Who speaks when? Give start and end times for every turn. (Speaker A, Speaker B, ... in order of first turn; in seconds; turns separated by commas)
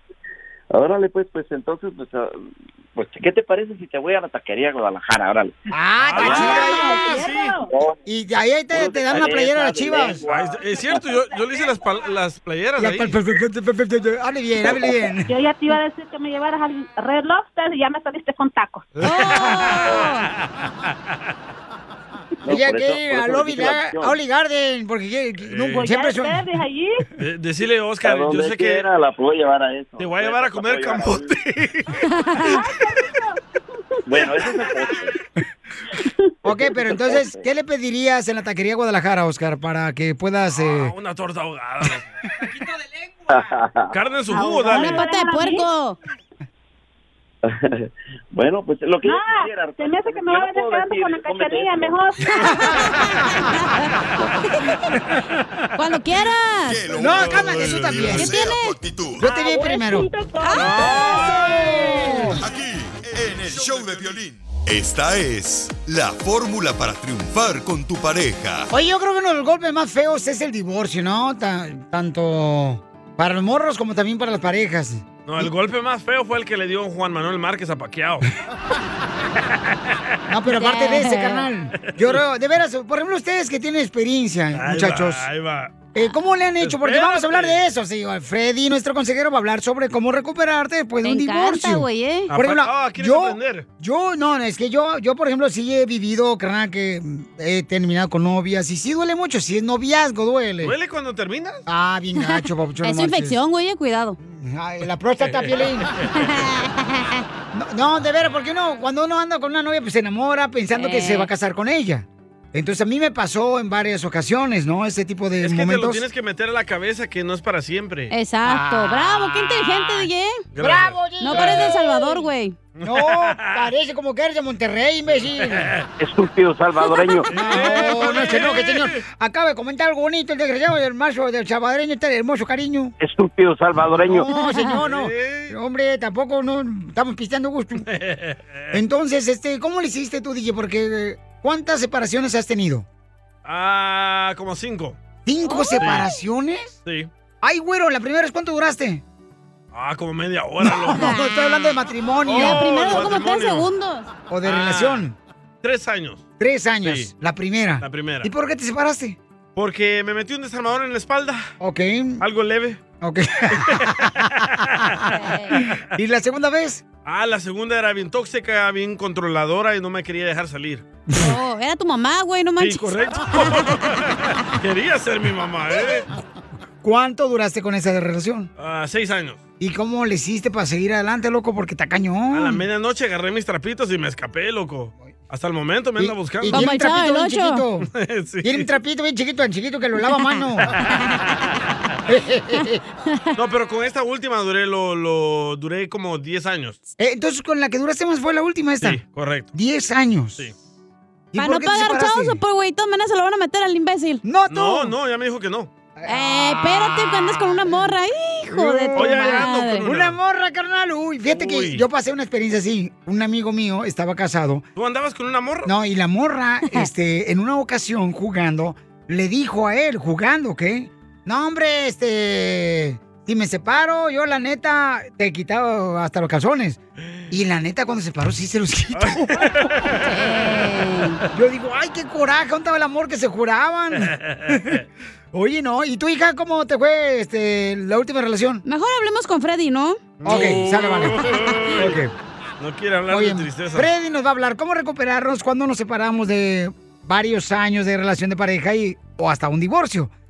Speaker A: 0.7-5.5, Speaker B: 5.7-7.2, Speaker C: 6.0-7.5, Speaker A: 6.2-6.7, Speaker D: 6.2-7.7, Speaker A: 7.7-8.0, Speaker B: 8.1-10.2, Speaker A: 8.7-11.1, Speaker C: 10.3-13.2, Speaker B: 12.8-15.3, Speaker A: 14.6-14.9, Speaker D: 15.3-18.9, Speaker C: 19.0-20.3, Speaker E: 19.0-20.3, Speaker A: 22.4-24.1, Speaker B: 22.5-26.4, Speaker C: 25.4-25.9, Speaker D: 25.8-27.0, Speaker C: 27.2-28.9, Speaker A: 28.0-31.3, Speaker C: 30.0-31.9, Speaker E: 32.1-32.5, Speaker D: 32.5-33.4, Speaker A: 34.0-35.2, Speaker B: 36.4-40.9, Speaker A: 36.5-37.4, Speaker C: 40.7-42.0, Speaker A: 43.3-43.9, Speaker C: 43.9-45.0, Speaker D: 44.3-45.7, Speaker E: 44.7-46.0, Speaker A: 47.4-52.1, Speaker D: 49.0-52.7, Speaker E: 52.8-54.8, Speaker E: 55.8-56.9, Speaker F: 56.7-59.2, Speaker B: 56.9-58.4, Speaker C: 57.2-58.1, Speaker E: 58.1-58.8, Speaker B: 59.2-60.1, Speaker D: 59.2-62.2, Speaker E: 60.4-60.8, Speaker C: 60.5-62.2, Speaker B: 60.8-62.4, Speaker F: 62.4-68.7, Speaker B: 68.7-75.5, Speaker C: 75.2-78.3, Speaker B: 80.3-85.3, Speaker E: 80.5-81.5, Speaker C: 81.9-82.2, Speaker C: 84.5-85.9, Speaker B: 85.9-100.7, Speaker C: 86.6-87.6, Speaker E: 91.0-92.3, Speaker C: 92.3-93.7, Speaker C: 100.6-101.6, Speaker B: 101.7-103.4, Speaker E: 102.2-104.2, Speaker B: 104.2-105.9, Speaker E: 106.2-107.2, Speaker B: 107.5-116.0, Speaker E: 110.7-111.3, Speaker C: 115.4-118.1, Speaker E: 118.1-120.4, Speaker B: 118.4-119.5, Speaker C: 120.5-121.8, Speaker B: 120.6-122.3, Speaker E: 121.2-122.6, Speaker C: 122.8-123.7, Speaker B: 122.8-125.7, Speaker C: 125.4-125.8, Speaker A: 126.0-127.3, Speaker E: 126.8-127.9, Speaker C: 127.3-129.0, Speaker B: 127.3-132.9, Speaker A: 133.0-134.2, Speaker B: 133.9-137.8, Speaker E: 134.3-134.8, Speaker C: 134.8-135.5, Speaker C: 137.8-138.8, Speaker B: 138.7-142.8, Speaker C: 143.4-145.0, Speaker B: 145.2-146.8, Speaker E: 145.4-145.9, Speaker C: 145.8-146.0, Speaker C: 146.8-147.1, Speaker B: 147.4-149.0, Speaker C: 149.7-151.2, Speaker B: 150.6-152.9, Speaker E: 150.9-151.7, Speaker C: 152.3-153.7, Speaker E: 152.3-154.1, Speaker B: 154.3-155.1, Speaker C: 154.4-155.1, Speaker C: 155.6-156.3, Speaker B: 156.4-159.2, Speaker C: 156.8-157.1, Speaker C: 157.8-158.3, Speaker C: 159.6-161.5, Speaker B: 161.6-162.2, Speaker C: 162.2-162.8, Speaker B: 163.0-166.8, Speaker C: 163.5-164.9, Speaker E: 165.1-165.6, Speaker C: 167.0-170.8, Speaker E: 171.1-173.8, Speaker C: 172.6-176.1, Speaker B: 176.8-178.5, Speaker C: 178.6-179.4, Speaker B: 179.6-182.6, Speaker C: 182.3-186.7, Speaker B: 186.0-187.9, Speaker E: 186.5-187.6, Speaker C: 187.9-188.7, Speaker B: 188.4-190.7, Speaker E: 190.0-191.0, Speaker B: 192.1-192.8, Speaker C: 193.3-196.8, Speaker B: 197.0-199.0, Speaker C: 198.8-199.5, Speaker B: 199.5-200.5, Speaker B: 201.3-202.4, Speaker E: 201.3-204.2, Speaker B: 204.2-204.9, Speaker C: 204.5-205.7, Speaker B: 206.0-207.9, Speaker E: 206.1-209.8, Speaker B: 208.5-214.6, Speaker C: 208.9-210.2, Speaker C: 211.3-211.8, Speaker C: 214.8-215.7, Speaker B: 215.7-226.8, Speaker B: 227.3-229.5, Speaker C: 228.9-230.0, Speaker E: 230.0-231.2, Speaker B: 231.3-234.8, Speaker C: 234.0-234.8, Speaker B: 235.3-238.6, Speaker E: 238.6-240.4, Speaker C: 240.2-242.0, Speaker B: 240.2-242.1, Speaker C: 242.6-243.9, Speaker B: 243.1-250.1